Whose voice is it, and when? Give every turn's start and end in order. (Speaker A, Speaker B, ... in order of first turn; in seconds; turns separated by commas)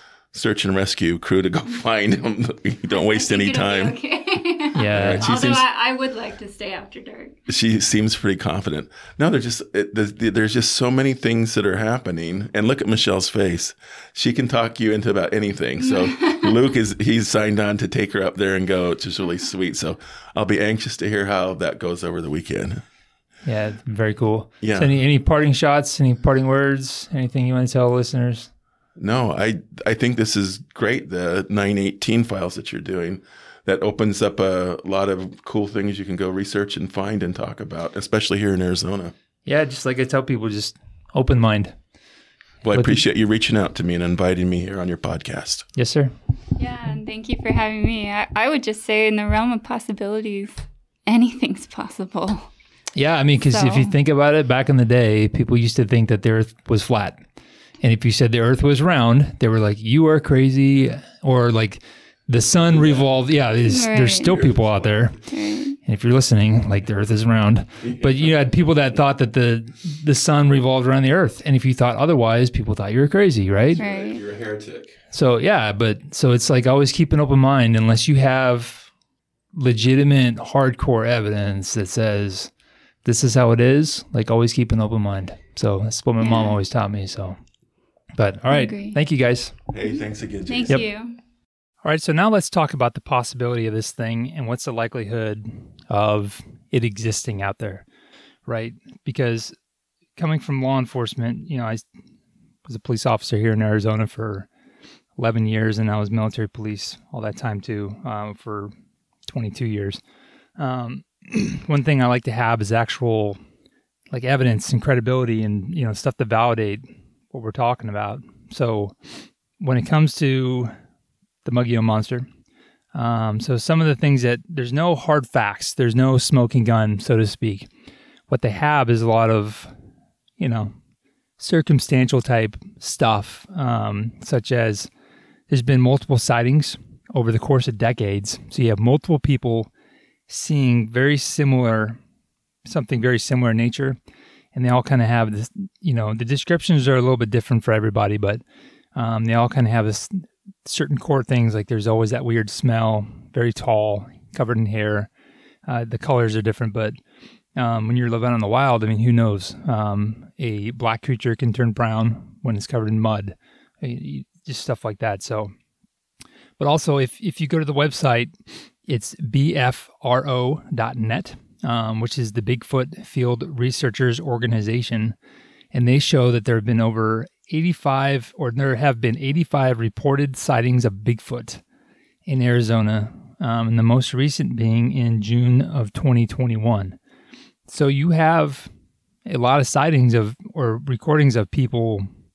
Speaker A: 0.3-4.0, Speaker B: 2.9-7.3, Speaker C: 4.7-5.3, Speaker A: 4.9-5.6, Speaker A: 7.5-22.8, Speaker B: 15.8-16.6, Speaker C: 23.4-28.5, Speaker A: 24.6-24.9, Speaker A: 29.0-39.1, Speaker C: 39.4-41.8, Speaker A: 42.6-45.6, Speaker C: 42.7-43.0, Speaker C: 45.8-46.1, Speaker B: 46.5-52.5, Speaker C: 53.0-57.2, Speaker B: 53.5-53.9, Speaker C: 57.8-65.2, Speaker B: 63.6-64.5, Speaker B: 65.3-65.8, Speaker C: 65.8-73.8, Speaker A: 67.8-68.2, Speaker A: 73.7-74.9, Speaker B: 73.8-74.2, Speaker C: 75.1-78.9, Speaker C: 79.5-82.5, Speaker C: 83.0-87.4, Speaker B: 86.2-86.6, Speaker C: 88.2-89.5, Speaker B: 88.5-89.0, Speaker A: 89.7-90.8, Speaker B: 90.5-91.2, Speaker C: 91.8-97.8, Speaker C: 98.5-99.5, Speaker C: 100.2-101.8, Speaker C: 102.7-104.5, Speaker C: 105.2-108.7, Speaker C: 109.3-110.0, Speaker C: 110.6-113.4, Speaker C: 114.1-120.7, Speaker C: 121.4-122.2, Speaker C: 122.9-127.7, Speaker C: 128.3-129.7, Speaker C: 130.4-130.7, Speaker C: 131.4-134.9, Speaker C: 135.5-139.7, Speaker C: 140.3-142.0, Speaker C: 142.7-144.0, Speaker C: 144.5-148.4, Speaker C: 148.9-155.1, Speaker C: 155.7-156.9, Speaker C: 157.6-165.5, Speaker C: 166.6-168.3, Speaker C: 168.8-175.1, Speaker C: 175.7-181.6, Speaker C: 182.2-187.0, Speaker C: 187.7-188.7, Speaker C: 189.2-192.1